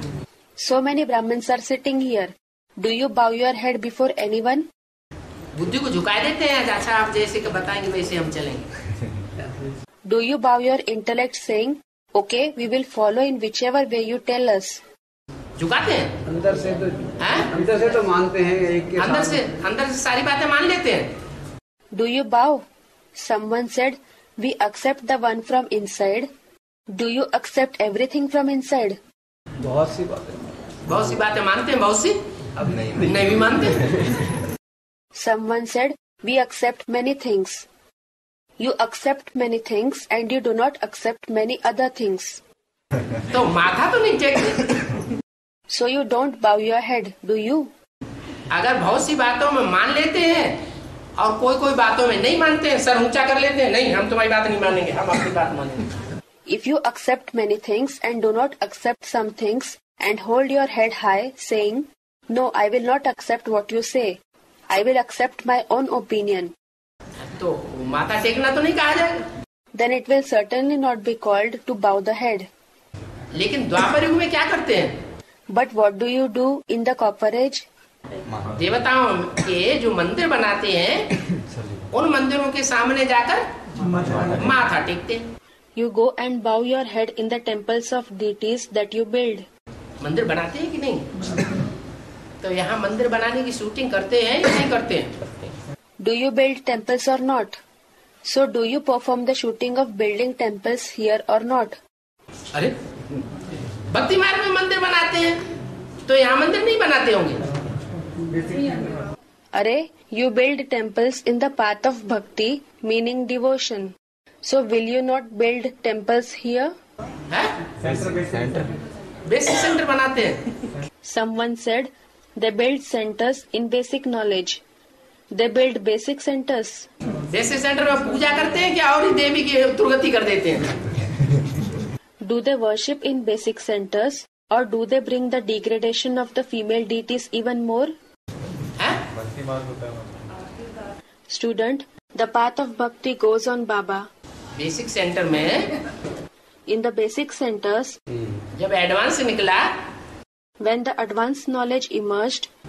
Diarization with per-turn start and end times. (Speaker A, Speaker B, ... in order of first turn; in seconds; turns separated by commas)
Speaker A: 0.6-4.7, Speaker B: 5.5-8.7, Speaker A: 10.1-14.8, Speaker B: 15.6-16.1, Speaker C: 16.2-19.5, Speaker B: 17.2-17.5, Speaker B: 18.9-21.1, Speaker A: 21.9-26.3, Speaker A: 26.9-29.0, Speaker C: 29.6-30.7, Speaker B: 30.9-32.2, Speaker B: 33.0-33.9, Speaker A: 35.1-37.7, Speaker A: 38.6-42.4, Speaker B: 43.3-44.8, Speaker A: 45.7-47.7, Speaker B: 48.5-50.6, Speaker B: 51.2-55.9, Speaker A: 56.5-66.5, Speaker B: 67.2-69.3, Speaker A: 69.7-72.5, Speaker B: 73.3-75.0, Speaker A: 75.5-77.7, Speaker B: 78.6-81.2, Speaker D: 81.5-81.8, Speaker B: 81.9-83.5, Speaker B: 84.4-85.3, Speaker A: 85.8-89.5, Speaker B: 90.0-91.1, Speaker B: 92.4-95.2, Speaker A: 96.0-97.6, Speaker A: 98.3-101.8, Speaker B: 103.9-105.4, Speaker B: 106.1-107.4, Speaker A: 109.5-116.7, Speaker B: 117.3-117.5, Speaker D: 117.8-118.7, Speaker B: 119.2-120.4, Speaker A: 121.0-124.6, Speaker A: 125.3-126.9, Speaker B: 127.3-130.7, Speaker A: 132.2-137.9, Speaker D: 139.1-140.3, Speaker A: 141.3-144.1, Speaker B: 144.6-145.7, Speaker A: 146.7-148.0, Speaker B: 148.6-149.7, Speaker A: 150.6-152.5